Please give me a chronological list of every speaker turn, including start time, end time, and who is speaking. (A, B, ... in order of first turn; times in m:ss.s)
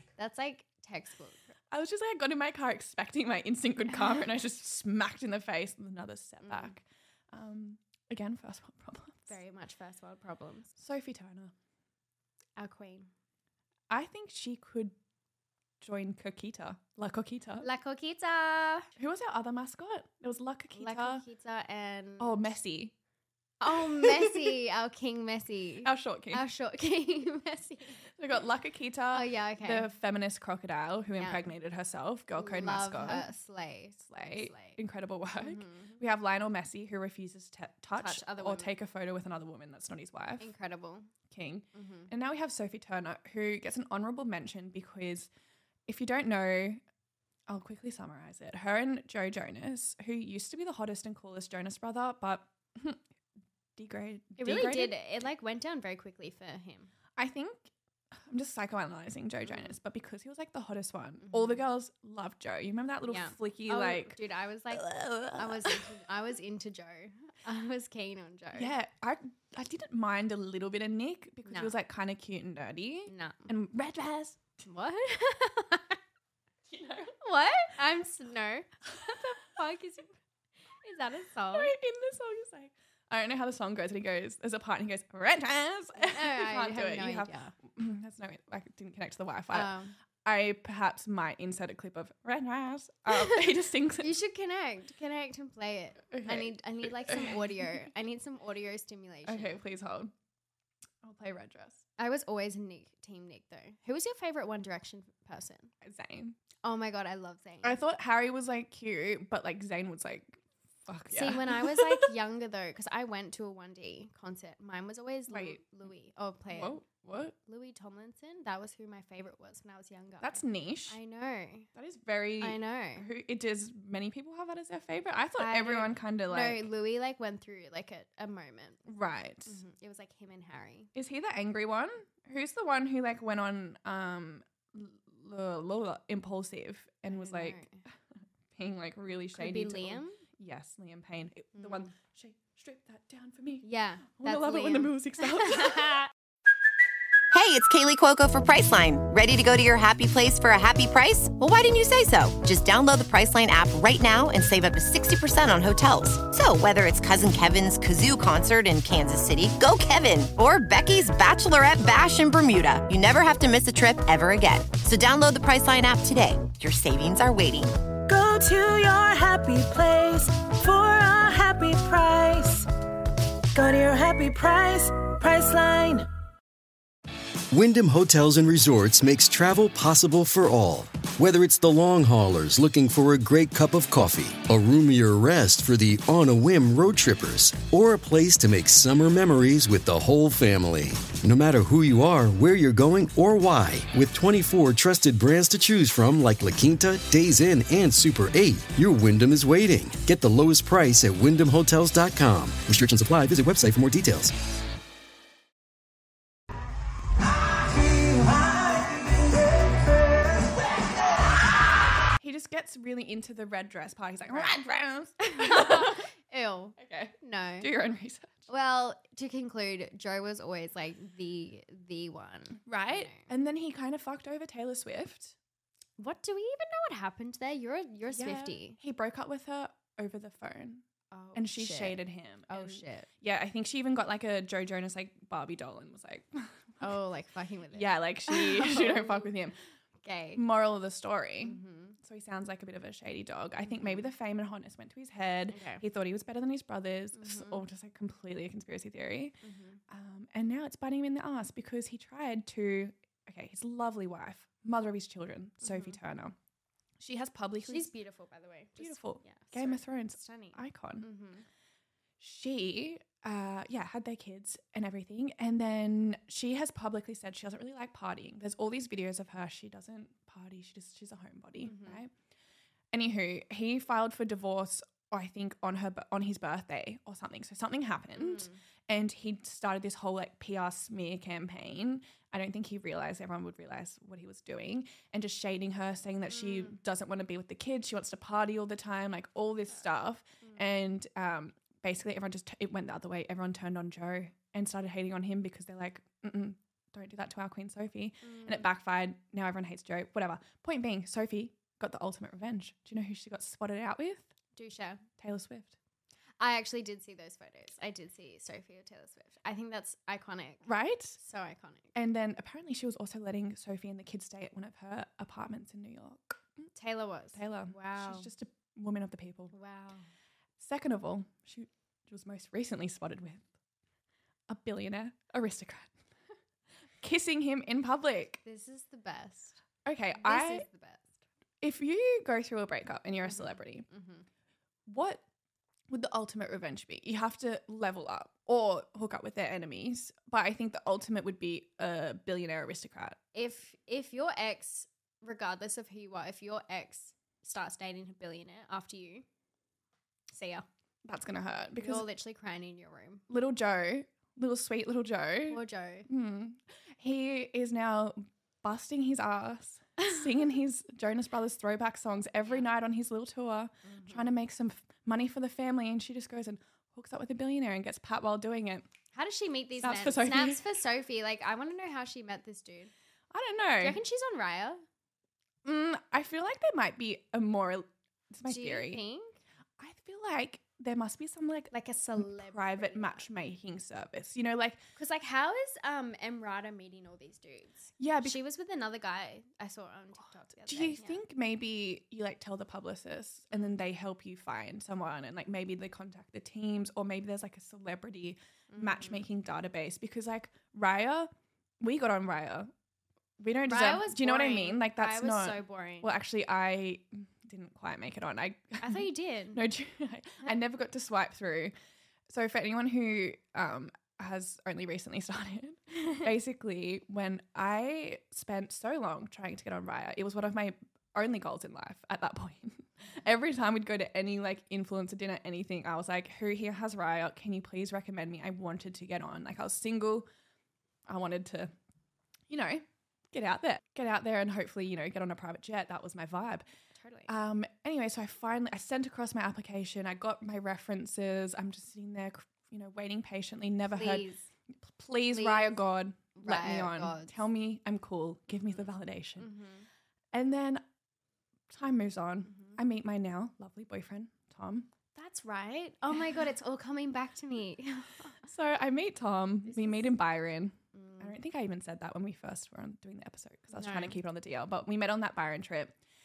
0:00.2-0:01.5 A
0:01.7-0:09.4 B
0:06.4-0:06.7 A
0:09.3-0:10.7 A
0:10.8-0:11.5 B
0:12.6-0:13.1 A
0:13.9-0:15.0 B
0:15.8-0:17.7 B
0:17.6-0:18.9 A
0:19.0-0:21.2 B
0:20.7-0:22.5 A
0:22.2-0:22.9 B
0:23.6-0:28.0 A
0:23.7-0:24.4 B
0:25.8-0:26.4 B
0:28.2-0:33.3 B
0:29.1-0:29.9 A
0:31.2-0:31.4 A
0:32.3-0:34.8 A
0:34.0-0:40.5 B
0:35.4-0:36.0 A
0:37.9-0:38.7 A
0:40.4-0:41.1 A
0:41.3-0:45.3 B
0:41.7-0:42.1 A
0:45.9-0:46.8 B
0:47.5-0:53.0 B
0:53.8-0:55.0 B
0:54.4-0:56.9 A
0:57.2-1:04.2 B
0:59.4-0:59.7 A
1:01.2-1:01.6 A
1:03.1-1:08.7 A
1:04.7-1:06.0 B
1:08.5-1:14.4 B
1:11.4-1:11.7 A
1:13.1-1:13.5 A
1:14.6-1:16.0 A
1:16.7-1:17.2 B
1:17.2-1:20.2 A
1:20.8-1:21.7 A
1:21.5-1:29.7 B
1:26.0-1:27.5 A
1:29.5-1:29.9 A
1:30.2-1:34.1 B
1:33.1-1:33.4 A
1:34.0-1:39.6 A
1:36.1-1:37.8 B
1:39.2-1:40.1 B
1:41.0-1:41.8 B
1:42.0-1:45.7 A
1:45.8-1:46.4 B
1:46.6-1:47.8 A
1:47.6-1:52.1 B
1:51.1-1:56.8 A
1:55.3-1:55.6 B
1:56.5-1:57.3 B
1:57.4-2:01.7 A
2:00.2-2:01.0 B
2:01.7-2:06.7 B
2:02.4-2:03.1 A
2:05.4-2:08.8 A
2:08.9-2:09.6 B
2:09.4-2:10.9 A
2:10.9-2:17.6 B
2:17.1-2:17.8 A
2:18.5-2:26.1 B
2:19.3-2:20.2 A
2:21.5-2:21.9 A
2:23.6-2:26.0 A
2:27.3-2:47.8 C
2:48.1-2:52.7 D
2:53.5-2:56.1 D
2:57.5-3:24.3 E
3:32.2-3:36.0 B
3:34.3-3:34.5 A
3:35.2-3:37.7 A
3:36.8-3:38.5 B
3:38.5-3:43.3 A
3:42.6-3:45.3 B
3:46.0-3:48.8 A
3:48.1-3:50.8 B
3:51.1-3:53.1 A
3:51.3-3:56.9 B
3:56.8-3:59.3 A
3:57.7-3:59.6 B
4:00.0-4:00.4 A
4:00.4-4:09.4 B
4:01.4-4:02.0 A
4:03.6-4:04.1 A
4:05.5-4:05.8 A
4:07.1-4:07.6 A
4:09.4-4:09.8 A
4:09.9-4:16.3 B
4:15.6-4:16.0 A
4:17.0-4:17.9 B
4:17.6-4:21.4 A
4:18.8-4:21.1 B
4:22.2-4:32.1 B
4:31.6-4:32.0 A
4:32.9-5:04.3 B
4:38.1-4:38.6 A
4:58.2-4:58.7 A
5:04.6-5:05.0 A
5:05.2-5:05.7 B
5:06.4-5:11.9 A
5:10.6-5:11.2 B
5:11.9-5:16.6 B
5:16.7-5:18.3 A
5:17.3-5:19.5 B
5:19.5-5:20.0 A
5:20.6-5:23.4 B
5:24.5-5:25.9 B
5:27.0-5:28.4 B
5:28.4-5:29.6 A
5:29.8-5:30.6 B
5:30.2-5:31.2 A
5:31.6-5:33.8 B
5:33.2-5:34.2 A
5:34.9-5:35.2 B
5:35.9-5:43.2 B
5:43.3-5:49.2 A
5:50.3-5:50.6 A
5:51.0-5:52.1 B
5:51.8-5:53.2 A
5:53.3-6:08.9 B
5:55.5-5:56.1 A
6:03.8-6:04.3 A
6:09.1-6:12.9 A
6:09.8-6:10.6 B
6:13.3-6:14.0 B
6:13.8-6:14.8 A
6:15.6-6:19.0 B
6:18.4-6:19.4 A
6:19.8-6:24.8 B
6:21.7-6:23.3 A
6:25.0-6:31.2 A
6:28.0-6:28.4 B
6:30.6-6:42.7 B
6:38.7-6:39.2 A
6:43.4-6:51.7 B
6:43.7-6:46.1 A
6:48.8-6:49.6 A
6:52.3-7:10.3 B
7:11.1-7:11.7 B
7:12.5-7:16.6 B
7:17.0-7:17.3 A
7:17.3-7:24.3 B
7:23.9-7:24.4 A
7:24.8-7:29.5 B
7:25.3-7:25.8 A
7:26.3-7:27.3 A
7:29.4-7:29.8 A
7:30.3-7:30.8 B
7:31.7-7:34.9 B
7:32.5-7:32.8 A
7:35.1-7:38.4 A
7:38.4-7:45.9 B
7:39.7-7:40.1 A
7:40.9-7:41.3 A
7:43.7-7:44.2 A